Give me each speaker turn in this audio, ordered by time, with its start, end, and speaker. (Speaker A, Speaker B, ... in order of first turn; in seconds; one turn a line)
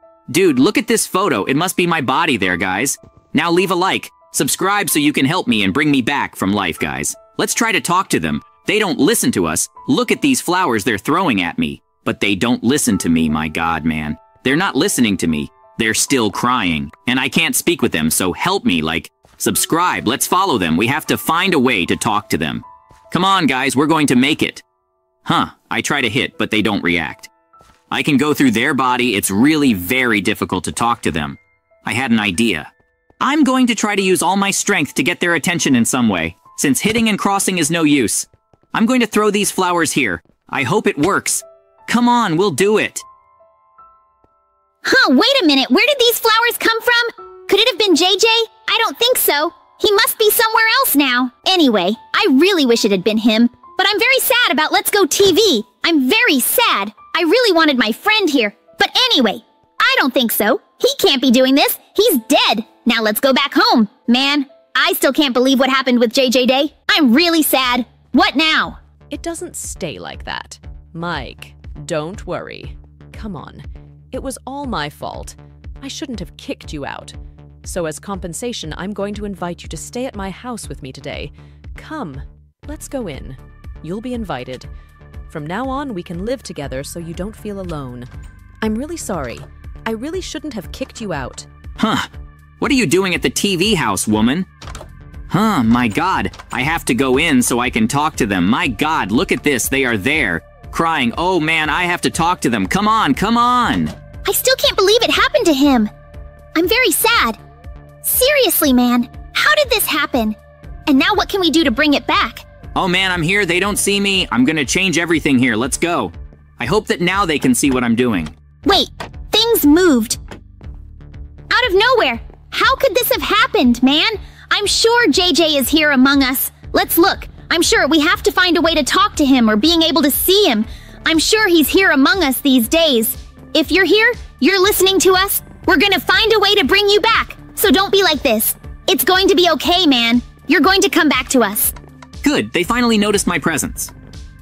Speaker A: 0.3-24.6
Speaker A: 25.2-27.3
Speaker A: 27.9-43.0
Speaker B: 44.8-68.8
Speaker C: 69.1-84.7
Speaker C: 85.3-88.1
Speaker C: 88.6-91.5
Speaker A: 91.8-92.1
Speaker A: 92.6-94.5
Speaker A: 95.3-103.9
Speaker B: 104.2-105.9
Speaker B: 106.5-107.4
Speaker B: 108.0-112.4
Speaker A: 112.7-118.3
Speaker B: 118.6-120.2
Speaker B: 121.5-141.7
Speaker A: 142.2-143.9